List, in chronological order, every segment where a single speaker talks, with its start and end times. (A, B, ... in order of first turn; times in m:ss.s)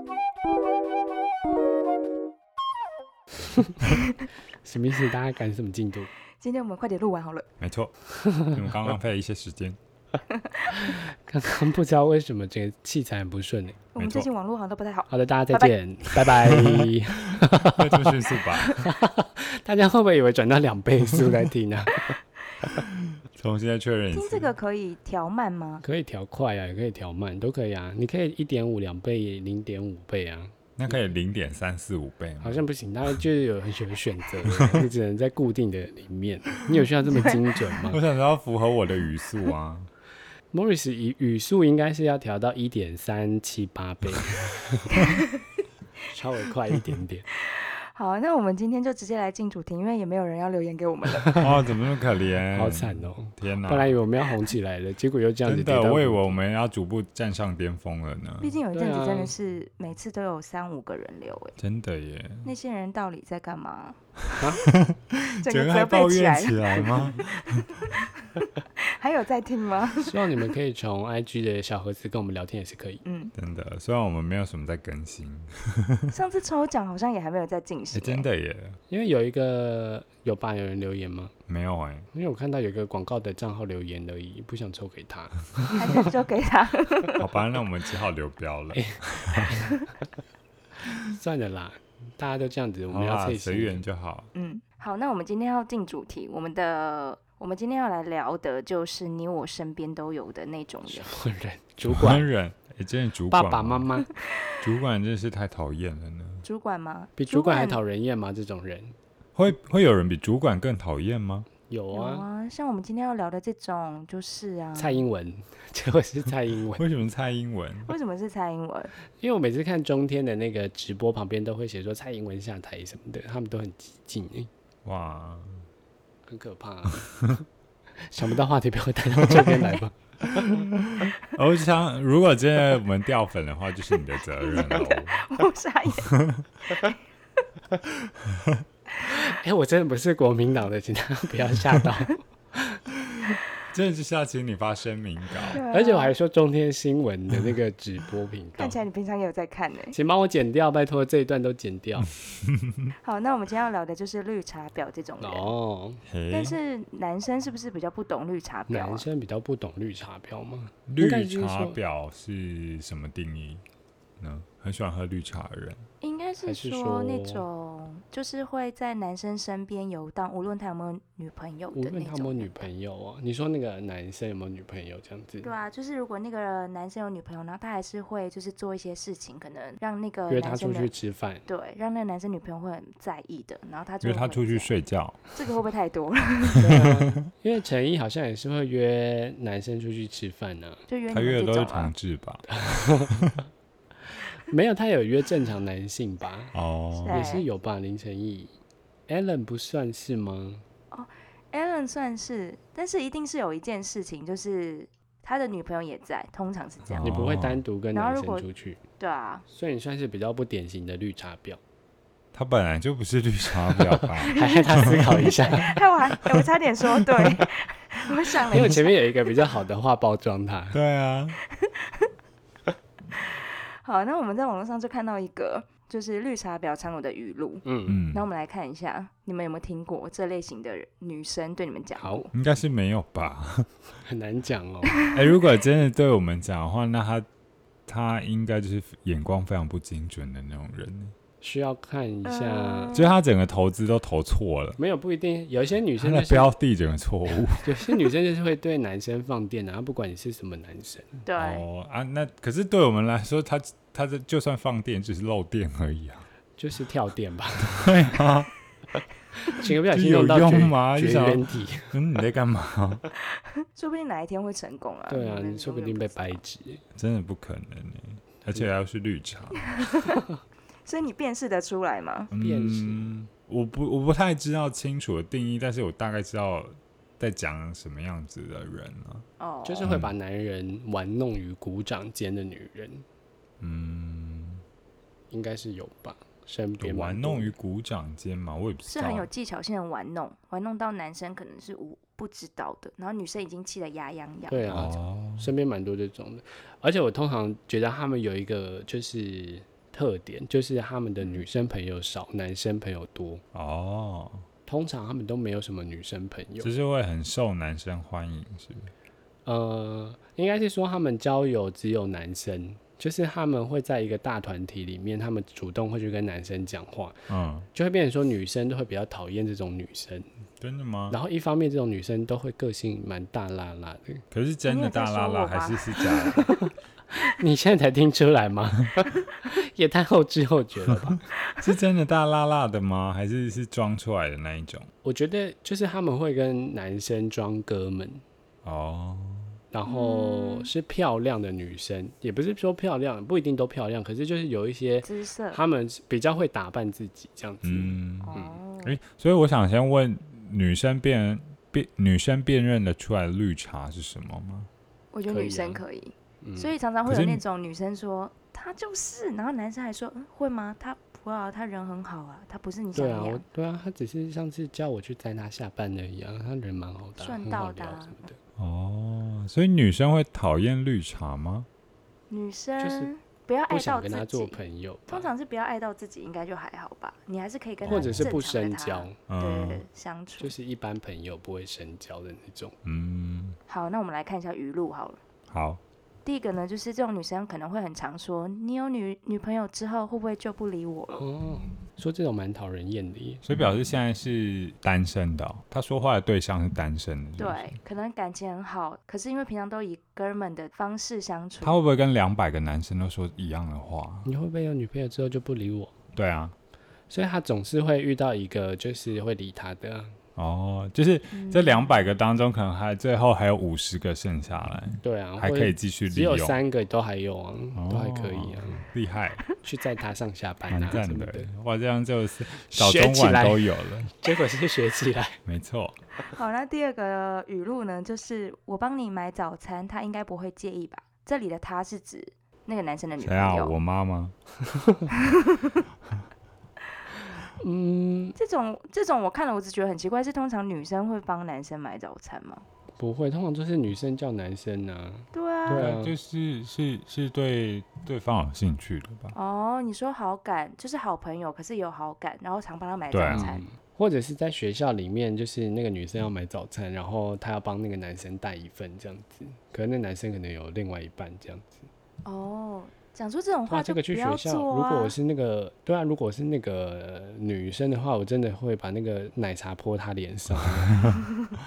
0:04.6-0:06.1 A
0:06.4-0:07.5 B
0:07.6-0:09.8 C
0:08.2-0:08.5 A
0:10.3-0:10.9 B
0:10.7-0:13.8 A
0:14.0-0:16.3 B
0:14.0-0:14.3 C
0:15.1-0:18.2 A
0:16.4-0:16.8 C
0:17.5-0:18.9 C
0:18.8-0:22.1 A
0:23.1-0:24.5 C
0:24.1-0:25.8 B
0:25.8-0:30.9 A
0:30.8-0:32.6 C
0:32.4-0:38.0 A
0:34.5-0:34.8 C
0:37.9-0:39.9 C
0:40.5-0:45.1 A
0:45.0-0:45.2 B
0:46.1-0:47.3 A
0:47.5-0:51.5 B
0:51.4-0:54.0 C
0:52.5-0:56.4 A
0:55.4-0:58.5 C
0:58.4-1:01.5 B
0:58.7-0:59.3 A
1:01.6-1:02.5 C
1:02.4-1:04.0 B
1:04.3-1:07.8 C
1:04.4-1:04.6 A
1:05.4-1:10.1 B
1:06.8-1:07.1 A
1:10.0-1:13.0 A
1:13.0-1:13.3 B
1:13.3-1:16.1 C
1:16.1-1:18.3 B
1:17.9-1:18.8 C
1:18.9-1:21.3 A
1:21.5-1:22.1 C
1:22.1-1:26.1 A
1:25.7-1:27.2 B
1:27.2-1:29.5 C
1:28.7-1:29.8 A
1:30.9-1:33.8 A
1:32.9-1:34.3 C
1:34.3-1:41.1 B
1:40.9-1:42.3 A
1:41.8-1:43.9 C
1:43.3-1:44.1 A
1:44.6-1:46.4 C
1:46.4-1:47.8 B
1:47.2-1:49.0 A
1:49.4-1:51.5 C
1:51.7-1:52.2 A
1:51.9-1:55.0 B
1:54.7-1:56.8 A
1:56.8-1:57.9 C
1:57.8-1:58.9 B
1:59.2-2:04.5 A
2:04.8-2:05.6 C
2:06.3-2:07.4 A
2:08.0-2:10.7 A
2:10.4-2:15.2 C
2:14.4-2:16.2 B
2:16.1-2:16.5 C
2:18.2-2:18.6 C
2:19.1-2:22.8 A
2:23.7-2:25.6 C
2:25.5-2:26.1 B
2:25.7-2:28.8 A
2:28.6-2:30.0 B
2:29.9-2:32.1 A
2:32.2-2:32.9 C
2:33.0-2:35.5 B
2:35.2-2:36.0 A
2:36.1-2:36.6 C
2:36.3-2:39.1 B
2:38.7-2:41.8 A
2:40.9-2:43.6 C
2:44.2-2:45.8 C
2:46.0-2:52.7 B
2:46.4-2:47.4 A
2:51.7-2:55.5 A
2:55.4-3:00.9 B
3:00.3-3:01.4 A
3:01.5-3:04.7 B
3:04.0-3:05.2 C
3:05.3-3:06.7 B
3:06.5-3:06.9 C
3:06.6-3:10.8 A
3:10.9-3:11.9 B
3:11.1-3:13.3 C
3:12.5-3:13.3 A
3:14.4-3:16.5 A
3:16.5-3:17.3 C
3:17.0-3:17.4 B
3:17.1-3:18.5 A
3:19.1-3:20.6 A
3:20.9-3:27.2 B
3:26.9-3:27.6 C
3:27.0-3:28.8 A
3:27.9-3:28.4 B
3:29.0-3:29.4 B
3:29.5-3:31.6 A
3:32.3-3:35.3 C
3:33.7-3:35.8 A
3:34.2-3:39.0 B
3:38.5-3:40.8 A
3:40.7-3:41.4 C
3:41.5-3:42.1 B
3:43.8-3:52.3 B
3:47.6-3:48.0 A
3:47.9-3:48.2 C
3:52.0-3:52.2 A
3:52.3-3:53.7 C
3:54.0-3:55.0 A
3:55.0-3:55.2 B
3:55.1-3:57.3 C
3:57.9-4:01.1 C
4:01.4-4:02.9 A
4:02.2-4:03.1 B
4:02.9-4:04.8 C
4:04.8-4:06.5 A
4:06.0-4:08.0 C
4:07.6-4:11.2 A
4:11.2-4:11.6 B
4:11.4-4:16.3 C
4:16.6-4:18.1 A
4:17.6-4:18.5 C
4:19.4-4:22.0 A
4:19.9-4:23.0 C
4:23.5-4:26.4 B
4:25.1-4:26.8 A
4:26.9-4:29.7 C
4:29.6-4:30.2 B
4:30.9-4:32.3 B
4:32.3-4:39.2 C
4:32.4-4:33.1 A
4:39.4-4:39.9 B
4:39.6-4:43.0 A
4:39.8-4:40.1 C
4:43.6-4:44.6 C
4:45.3-4:47.5 A
4:46.8-4:49.3 C
4:48.9-4:54.9 B
4:54.5-5:03.4 A
4:54.7-4:55.5 C
5:03.5-5:04.4 C
5:04.6-5:06.7 A
5:06.6-5:08.9 C
5:09.4-5:20.3 A
5:17.3-5:17.7 C
5:20.6-5:21.2 C
5:21.1-5:24.2 A
5:24.3-5:26.5 C
5:24.7-5:26.6 B
5:27.1-5:31.2 A
5:31.6-5:34.9 C
5:35.0-5:38.2 A
5:38.6-5:39.6 C
5:39.7-5:48.6 A
5:39.9-5:40.7 B
5:45.0-5:45.6 B
5:47.6-5:54.7 C
5:48.2-5:49.0 B
5:55.1-6:03.4 B
5:55.3-5:55.8 A
5:56.4-5:56.7 A
5:57.0-5:57.4 C
6:02.9-6:08.4 A
6:07.2-6:08.3 B
6:08.6-6:11.7 C
6:12.3-6:20.5 B
6:12.8-6:13.1 A
6:13.7-6:15.3 A
6:17.8-6:18.3 C
6:17.8-6:19.2 A
6:19.3-6:19.8 C
6:20.4-6:22.8 A
6:22.8-6:23.6 C
6:23.7-6:25.2 B
6:25.5-6:25.8 C
6:26.2-6:31.2 B
6:31.1-6:33.6 A
6:33.4-6:37.8 C
6:37.4-6:41.8 B
6:41.6-6:44.3 C
6:44.2-6:45.9 A
6:46.1-6:46.6 C
6:47.1-6:50.2 A
6:50.4-6:56.6 C
6:51.3-6:52.1 B
6:55.0-6:58.8 A
6:57.8-6:59.4 C
6:59.6-7:01.5 A
7:00.7-7:04.1 C
7:02.7-7:05.4 A
7:05.4-7:06.0 C
7:06.3-7:13.8 B
7:13.2-7:14.3 C
7:14.7-7:15.0 A
7:15.3-7:15.8 B
7:17.6-7:18.4 A
7:18.4-7:22.6 B
7:23.0-7:26.1 A
7:25.3-7:25.9 B
7:25.7-7:29.3 C
7:29.3-7:33.6 B
7:33.1-7:33.5 C
7:33.3-7:41.9 A
7:42.2-7:45.1 B
7:43.7-7:51.0 A
7:50.6-7:51.2 C